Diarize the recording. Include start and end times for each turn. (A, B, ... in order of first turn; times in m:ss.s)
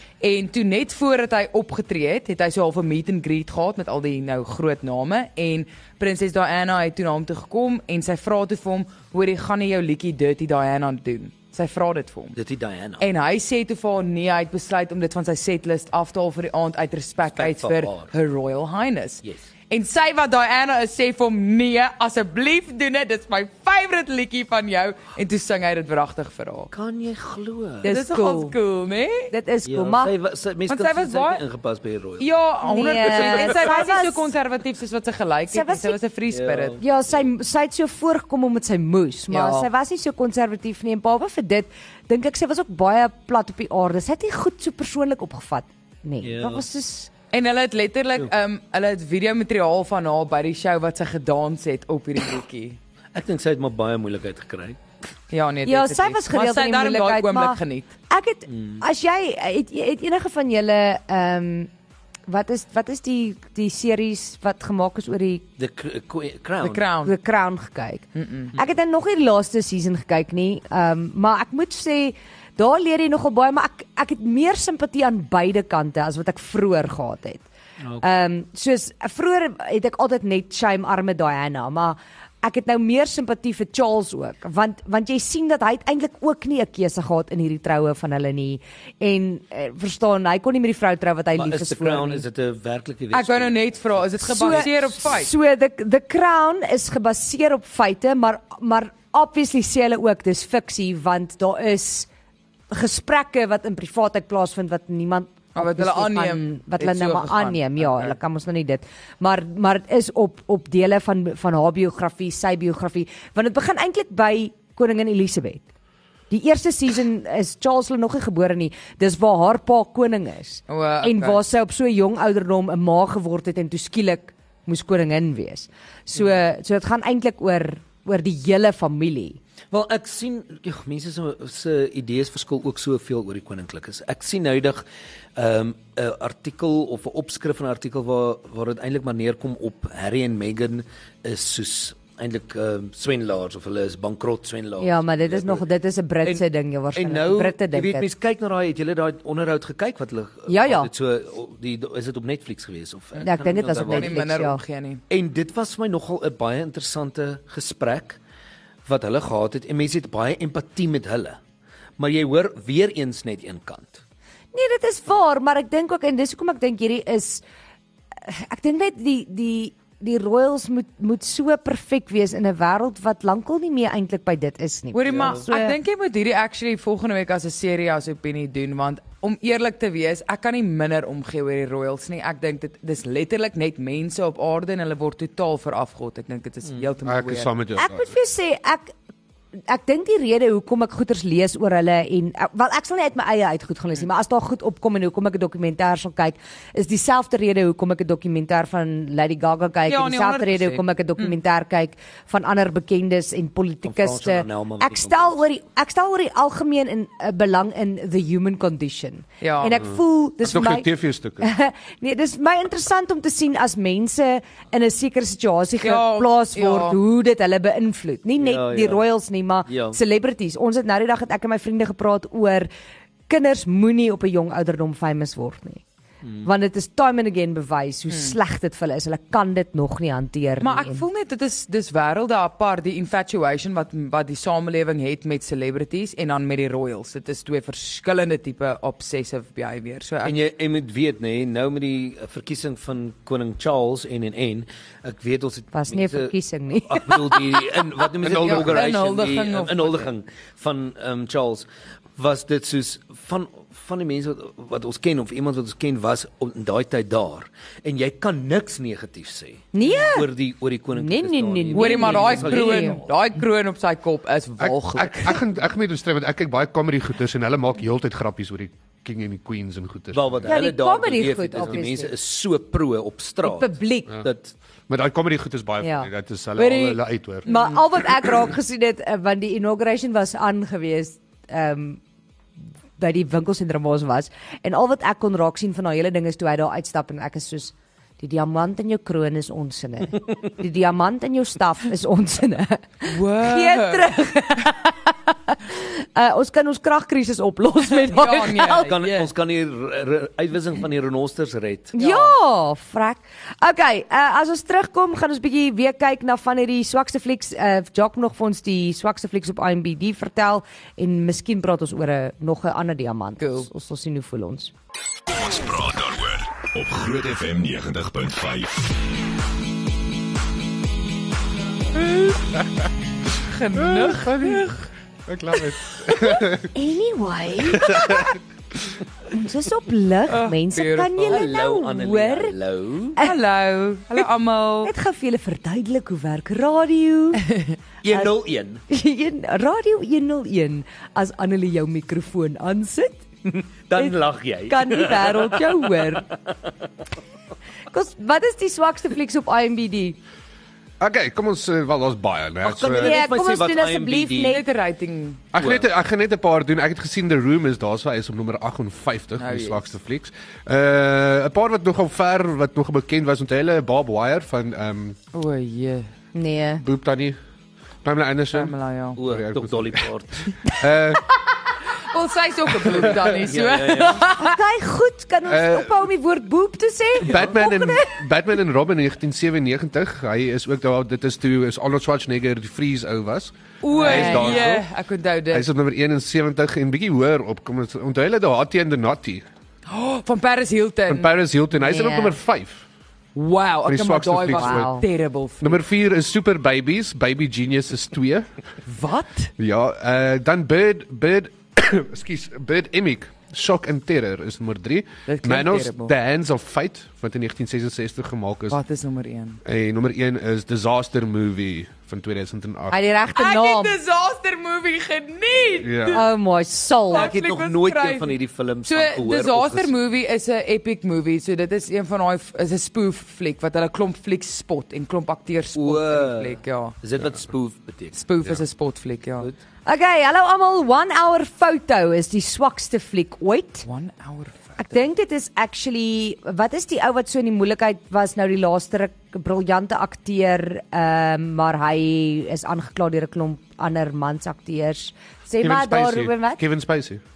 0:00.2-0:12.4 A
0:12.3-0:13.1 B
0:13.0-0:26.7 A
0:17.3-0:18.1 B
0:26.7-0:27.9 B
0:27.8-0:28.6 C
0:27.9-0:29.3 A
0:29.3-0:30.1 C
0:29.7-0:32.3 B
0:30.7-0:31.4 A
0:32.2-0:36.8 A
0:32.6-0:34.3 C
0:32.9-0:33.7 B
0:35.5-0:36.0 C
0:36.3-0:37.2 B
0:36.8-0:47.1 C
0:39.3-0:39.7 A
0:46.2-0:46.6 B
0:47.3-0:52.8 A
0:53.1-0:54.8 B
0:55.3-0:57.9 A
0:55.6-1:01.7 C
0:58.5-0:58.8 B
1:02.3-1:05.4 C
1:05.6-1:06.8 B
1:06.6-1:07.2 A
1:07.0-1:17.5 C
1:08.2-1:08.5 A
1:18.0-1:32.2 C
1:31.4-1:34.7 B
1:33.1-1:35.3 A
1:34.2-1:42.1 C
1:42.7-1:55.7 C
1:45.6-1:48.2 A
1:56.3-2:09.4 C
2:00.7-2:01.4 A
2:09.7-2:14.8 B
2:15.4-2:25.6 B
2:24.8-2:28.1 C
2:27.0-2:34.3 B
2:30.5-2:30.9 C
2:33.2-2:34.6 C
2:33.8-2:35.0 A
2:35.1-2:38.2 B
2:38.9-2:41.4 B
2:42.0-2:44.0 B
2:44.5-2:47.4 C
2:48.2-2:55.8 C
2:54.9-3:07.5 A
2:55.1-2:55.4 B
3:07.0-3:08.1 D
3:07.8-3:09.0 C
3:09.7-3:30.9 C
3:19.9-3:21.4 A
3:23.8-3:25.4 B
3:29.4-3:29.8 A
3:30.4-3:31.5 D
3:31.4-3:42.7 C
3:35.8-3:37.0 A
3:38.4-3:39.0 B
3:39.7-3:40.0 B
3:43.3-3:45.8 C
3:46.4-3:51.1 C
3:48.1-3:48.4 A
3:50.6-4:00.4 A
4:00.2-4:06.3 B
4:05.7-4:07.8 C
4:06.9-4:23.1 B
4:08.2-4:08.8 D
4:08.3-4:10.1 A
4:19.7-4:20.3 C
4:20.9-4:23.0 C
4:21.7-4:25.4 A
4:24.6-4:30.5 D
4:30.1-4:34.5 B
4:30.4-4:32.1 C
4:33.4-4:34.1 C
4:34.9-4:37.5 D
4:35.8-4:42.0 C
4:43.0-4:59.0 C
4:53.1-4:54.1 A
4:58.1-4:59.3 A
4:58.9-5:01.9 B
5:01.9-5:14.7 C
5:02.0-5:02.3 A
5:13.4-5:13.7 A
5:15.3-5:18.9 E
5:23.4-5:24.9 A
5:23.7-5:24.7 D
5:25.3-5:26.7 D
5:26.7-5:28.3 C
5:27.7-5:28.3 D
5:27.7-5:28.2 A
5:29.3-5:32.6 C
5:30.3-5:31.4 A
5:31.3-5:33.2 B
5:33.2-5:34.9 A
5:34.8-5:37.4 C
5:38.0-5:38.8 B
5:38.9-5:43.2 C
5:43.5-5:45.6 B
5:44.0-5:46.3 C
5:47.9-5:50.2 C
5:51.0-5:53.2 D
5:52.6-5:54.6 B
5:53.0-5:54.6 C
5:54.5-5:55.4 A
5:55.5-6:05.2 D
5:55.6-5:55.9 B
5:59.4-5:59.9 A
6:05.3-6:06.1 A
6:06.4-6:06.8 C
6:06.8-6:07.4 D
6:08.0-6:11.3 D
6:08.5-6:09.2 A
6:09.2-6:10.5 B
6:12.1-6:14.6 A
6:12.8-6:14.3 B
6:12.9-6:13.3 D
6:14.3-6:18.2 C
6:15.5-6:15.9 D
6:17.2-6:24.9 D
6:23.8-6:25.7 A
6:23.9-6:24.7 C
6:25.5-6:29.4 D
6:29.9-6:31.3 A
6:31.1-6:32.8 D
6:31.8-6:32.4 C
6:33.4-6:35.8 A
6:33.8-6:34.9 D
6:34.5-6:35.0 C
6:35.6-6:38.5 D
6:38.9-6:39.5 A
6:39.6-6:48.8 D
6:45.3-6:46.1 A
6:48.7-6:49.6 A
6:49.6-6:53.0 D
6:52.9-6:54.0 C
6:53.4-6:56.3 A
6:55.8-6:56.2 D
6:56.1-6:57.3 C
6:57.1-7:07.0 A
6:57.1-6:59.9 B
7:05.8-7:08.2 B
7:08.1-7:09.5 A
7:09.9-7:13.9 C
7:13.9-7:14.8 A
7:14.8-7:26.6 C
7:25.6-7:27.2 D